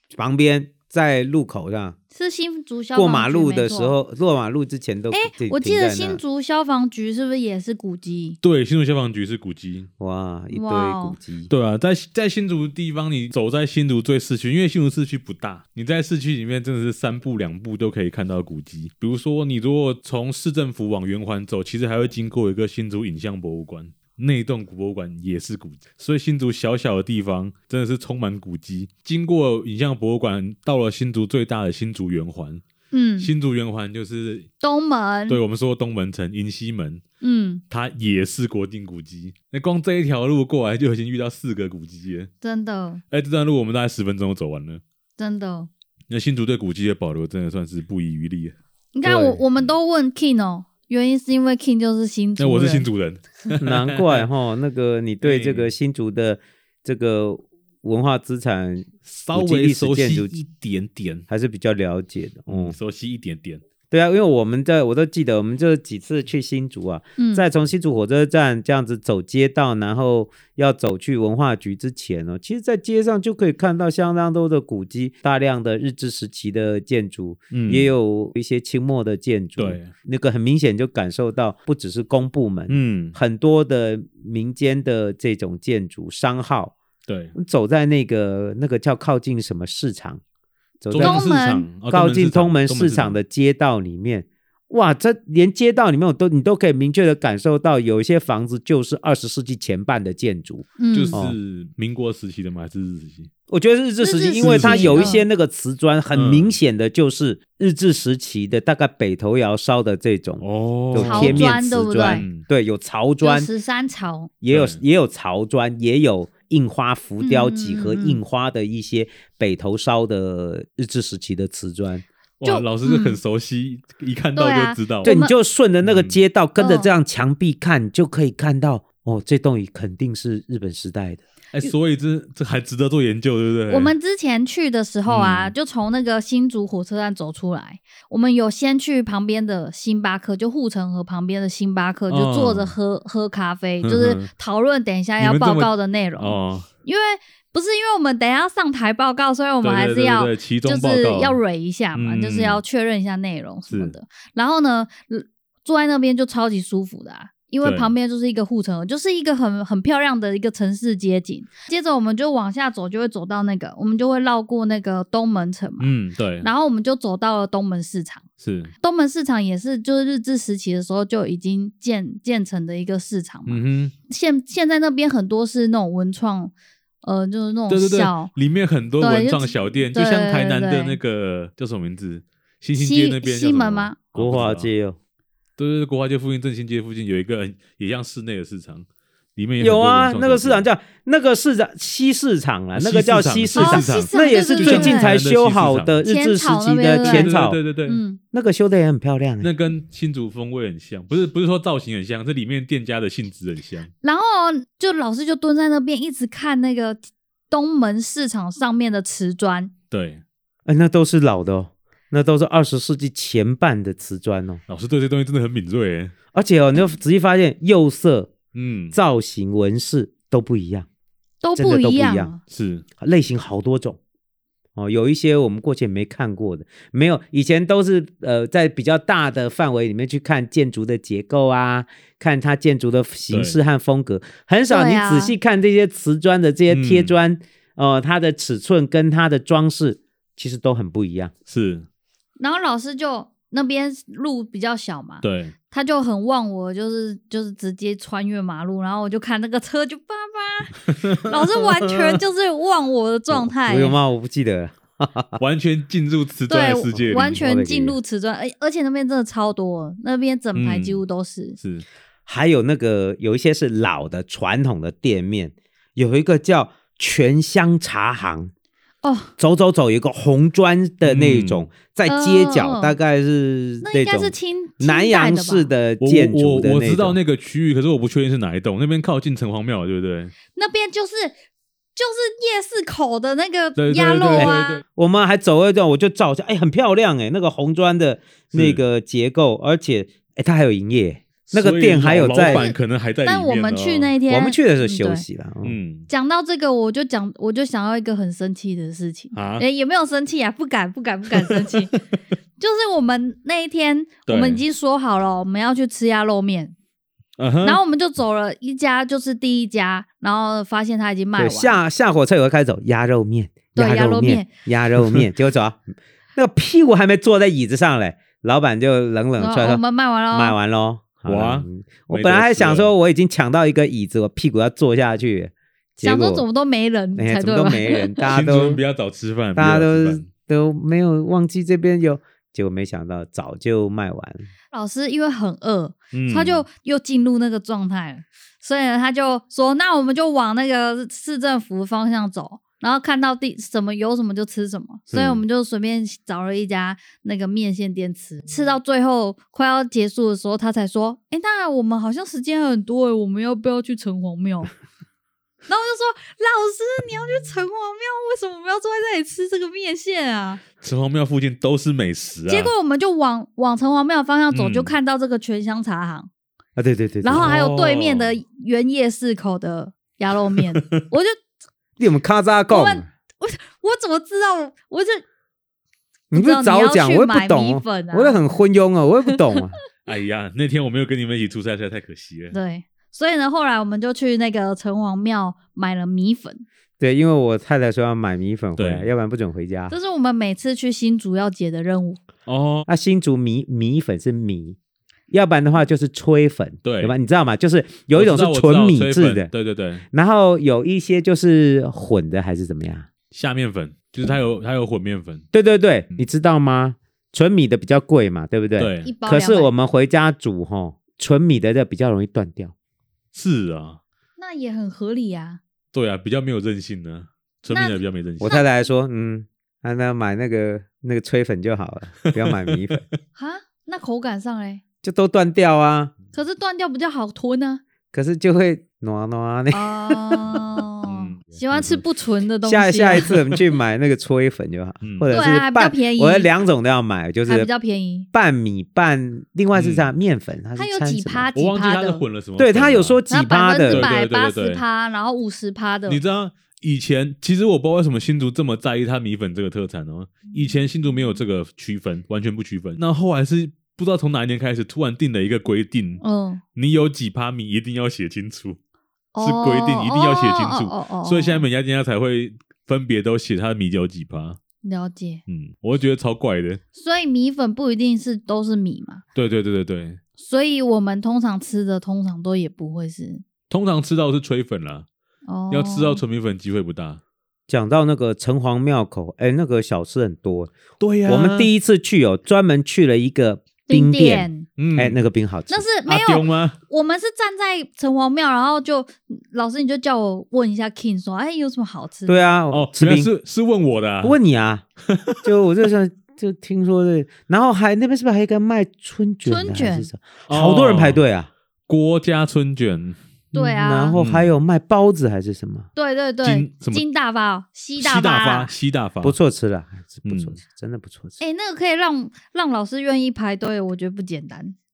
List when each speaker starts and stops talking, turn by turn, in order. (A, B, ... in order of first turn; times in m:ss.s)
0:00.1-0:02.0 A
0:02.1-0:04.0 B
0:02.9-0:06.2 A
0:05.1-0:08.4 B
0:08.4-0:09.9 C
0:10.0-0:11.5 A
0:10.5-0:11.2 B
0:11.5-0:32.6 C
0:32.9-0:33.3 B
0:33.2-0:34.5 C
0:34.6-0:35.4 B
0:35.3-0:37.0 C
0:37.2-0:37.6 B
0:37.7-0:42.3 C
0:42.4-0:43.0 B
0:43.1-0:44.8 C
0:45.2-0:45.7 B
0:46.1-0:48.5 C
0:48.9-0:52.9 B
0:49.0-0:49.4 A
0:52.4-0:54.3 C
0:53.6-1:00.3 A
0:55.2-0:55.7 C
0:59.0-1:01.2 C
1:01.3-1:02.8 A
1:02.5-1:03.6 C
1:03.9-1:26.8 A
1:07.2-1:07.4 B
1:17.5-1:17.9 C
1:19.6-1:19.9 C
1:22.7-1:23.2 C
1:27.1-1:27.3 C
1:27.4-1:30.2 A
1:30.8-1:31.3 A
1:30.9-1:33.2 C
1:31.0-1:31.7 B
1:31.8-1:41.4 A
1:40.8-1:41.2 B
1:40.9-1:43.3 C
1:43.5-1:53.5 A
1:44.0-1:45.2 B
1:44.4-1:45.1 C
1:46.1-1:46.5 C
1:50.4-1:52.4 C
1:51.0-1:52.2 B
1:53.2-1:54.3 B
1:54.4-2:02.0 A
1:54.5-1:54.8 C
1:57.2-1:58.2 B
2:02.4-2:05.1 C
2:02.4-2:03.2 B
2:04.4-2:05.3 B
2:05.0-2:11.2 A
2:05.8-2:06.2 C
2:06.6-2:06.9 B
2:11.5-2:13.9 C
2:13.7-2:48.2 B
2:15.0-2:15.5 C
2:22.1-2:22.8 C
2:23.8-2:24.3 C
2:25.2-2:26.7 C
2:29.6-2:31.4 C
2:31.9-2:32.6 C
2:33.7-2:33.9 C
2:37.6-2:37.9 C
2:45.8-2:46.5 C
2:48.4-2:48.7 C
2:48.8-2:58.3 B
2:53.5-2:53.9 C
2:57.7-3:04.7 C
2:59.0-3:01.0 B
3:02.7-3:04.0 B
3:04.1-3:05.0 A
3:05.6-3:10.6 C
3:09.6-3:17.6 A
3:12.7-3:16.0 C
3:13.5-3:15.2 B
3:16.0-3:17.3 B
3:17.0-3:18.0 C
3:17.9-3:18.2 B
3:18.3-3:19.5 A
3:19.4-3:23.9 C
3:24.0-3:29.7 B
3:29.9-3:30.2 C
3:30.6-3:34.6 A
3:34.7-3:36.1 C
3:36.3-3:38.3 A
3:38.5-3:39.0 C
3:38.9-3:40.9 A
3:41.4-3:42.4 B
3:41.6-3:42.3 A
3:42.5-3:42.8 C
3:43.0-3:44.0 A
3:44.8-4:01.3 A
3:53.3-3:53.6 C
3:54.7-3:55.3 B
3:56.7-3:57.1 C
4:01.5-4:01.9 C
4:02.4-4:14.0 B
4:05.2-4:05.5 C
4:10.9-4:12.2 C
4:13.3-4:15.4 A
4:15.4-4:17.4 C
4:16.5-4:21.6 B
4:17.0-4:18.0 A
4:20.5-4:21.0 C
4:21.6-4:21.8 C
4:22.3-4:28.5 A
4:29.0-4:29.3 B
4:29.4-4:37.2 A
4:31.0-4:31.7 C
4:32.1-4:33.0 B
4:33.8-4:35.7 B
4:36.0-4:40.3 C
4:40.5-4:41.3 B
4:42.0-4:44.8 B
4:43.8-4:44.8 C
4:44.3-4:52.7 A
4:48.5-4:48.8 C
4:51.4-4:54.2 C
4:52.4-4:55.2 B
4:54.3-4:55.8 A
4:55.6-4:56.1 C
4:56.1-5:01.9 B
4:59.3-4:59.6 C
5:02.6-5:06.7 B
5:04.3-5:04.6 C
5:07.4-5:07.8 C
5:07.6-5:11.8 B
5:11.4-5:15.8 A
5:13.7-5:14.5 B
5:16.4-5:19.8 A
5:19.4-5:20.6 B
5:20.3-5:26.4 A
5:21.2-5:22.9 C
5:26.0-5:28.2 B
5:27.2-5:28.8 A
5:28.3-5:30.3 C
5:29.6-5:34.5 A
5:34.7-5:54.7 B
5:36.1-5:36.6 C
5:45.1-5:45.4 C
5:55.7-6:00.6 B
6:00.8-6:02.7 C
6:02.5-6:06.3 B
6:04.5-6:04.9 C
6:06.8-6:07.5 A
6:07.2-6:11.4 B
6:07.3-6:08.4 C
6:10.6-6:11.0 C
6:12.0-6:13.1 A
6:12.7-6:15.2 B
6:16.3-6:19.8 A
6:16.3-6:18.4 B
6:20.0-6:22.6 C
6:22.5-6:26.6 B
6:27.0-6:29.9 A
6:28.8-6:29.1 C
6:29.9-6:32.2 B
6:32.4-6:32.8 C
6:32.9-6:34.8 A
6:35.3-6:39.5 A
6:36.8-6:37.1 C
6:38.1-6:40.0 C
6:40.1-6:43.1 A
6:43.3-6:45.4 C
6:45.5-6:52.7 A
6:48.8-6:49.1 C
6:49.0-6:49.7 B
6:53.3-6:54.0 C
6:54.4-6:55.6 B
6:55.9-6:58.6 C
6:57.7-6:58.6 B
6:58.4-7:03.0 A
7:02.2-7:03.0 C
7:03.4-7:04.8 B
7:05.0-7:06.1 A
7:06.3-7:07.8 B
7:08.1-7:10.6 A
7:09.7-7:13.4 B
7:11.0-7:12.0 C
7:12.6-7:17.7 A
7:15.0-7:15.3 C
7:15.3-7:16.5 B
7:17.5-7:18.3 B
7:18.3-7:21.5 A
7:19.7-7:20.1 C
7:20.8-7:22.2 B
7:21.5-7:23.2 C
7:22.6-7:24.1 A
7:23.3-7:26.2 B
7:23.8-7:24.8 C
7:26.1-7:36.2 C
7:36.2-7:36.6 B
7:36.7-7:38.8 C
7:39.3-7:41.6 B
7:39.4-7:44.6 C
7:44.8-7:45.4 B
7:45.5-7:46.8 C
7:46.9-7:49.2 B
7:49.3-7:50.2 C
7:50.4-7:53.4 B
7:53.7-7:55.0 C
7:55.4-7:56.2 B
7:55.7-7:57.2 C
7:57.7-8:00.7 A
8:01.0-8:01.7 C
8:01.2-8:05.8 A
8:03.9-8:04.7 B
8:04.8-8:05.2 C
8:05.7-8:12.4 B
8:06.0-8:06.8 C
8:12.3-8:13.3 A
8:12.7-8:14.4 C
8:14.2-8:14.8 A
8:15.1-8:15.4 C
8:15.4-8:21.5 A
8:19.4-8:20.1 B
8:20.5-8:21.2 C
8:21.9-8:23.2 C
8:23.5-8:25.9 A
8:23.5-8:24.2 B
8:24.1-8:24.5 C
8:25.9-8:28.7 B
8:26.4-8:27.0 C
8:28.0-8:29.4 C
8:29.2-8:31.4 A
8:30.2-8:30.6 C
8:31.4-8:34.7 B